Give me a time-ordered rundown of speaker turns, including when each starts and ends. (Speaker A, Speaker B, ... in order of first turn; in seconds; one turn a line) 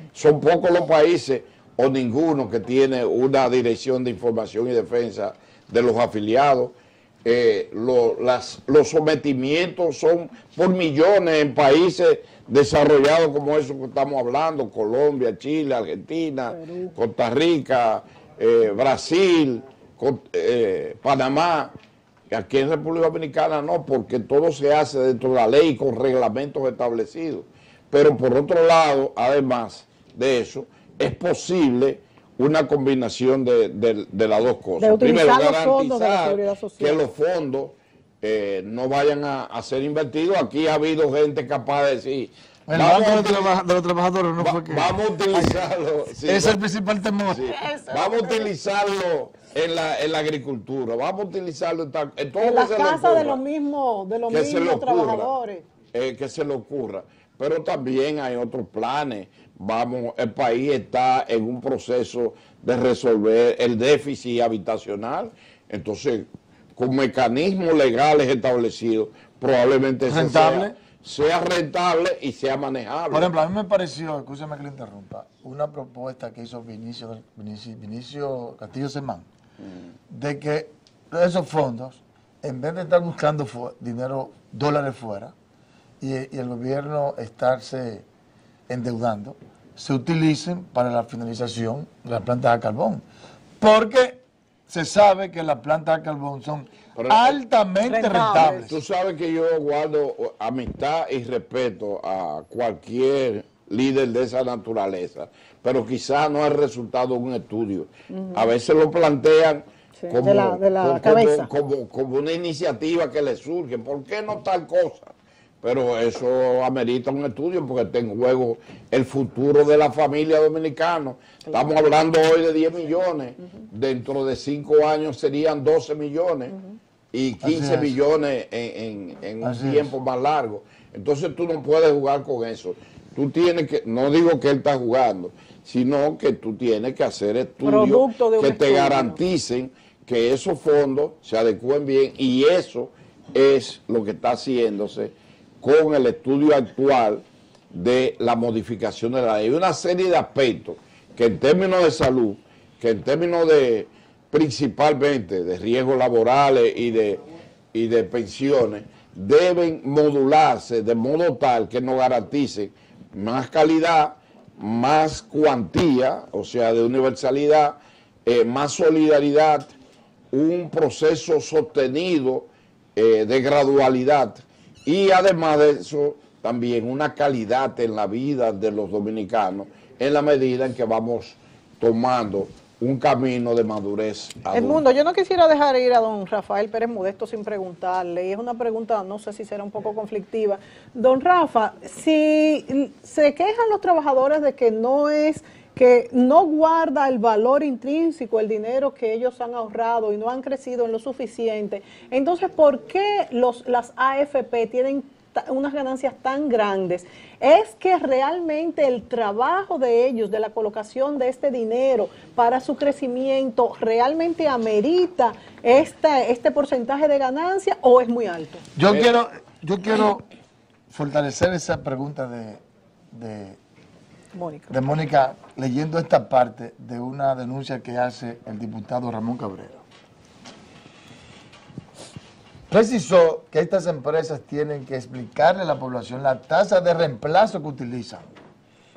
Speaker A: 0.1-21.7
Speaker B: 16.5-16.9
Speaker A: 22.3-43.6
Speaker B: 34.8-37.0
Speaker C: 42.7-45.6
Speaker A: 44.4-46.6
Speaker C: 46.2-47.5
Speaker A: 47.3-53.4
Speaker B: 47.5-48.5
Speaker B: 52.4-55.6
Speaker A: 54.3-55.3
Speaker A: 55.9-73.3
Speaker C: 70.1-70.8
Speaker C: 73.1-79.3
Speaker C: 80.1-85.3
Speaker C: 86.0-88.1
Speaker C: 88.7-93.0
Speaker C: 93.6-98.8
Speaker A: 97.0-97.4
Speaker B: 97.8-98.7
Speaker A: 98.4-115.1
Speaker B: 108.1-108.5
Speaker B: 110.0-111.5
Speaker A: 115.6-126.6
Speaker A: 127.1-157.2
Speaker C: 127.4-128.0
Speaker C: 129.4-129.9
Speaker B: 137.6-139.2
Speaker A: 157.7-169.7
Speaker A: 170.3-184.8
Speaker B: 184.5-218.6
Speaker C: 218.8-220.2
Speaker C: 220.9-223.6
Speaker B: 224.3-224.8
Speaker C: 224.7-229.8
Speaker C: 232.7-238.3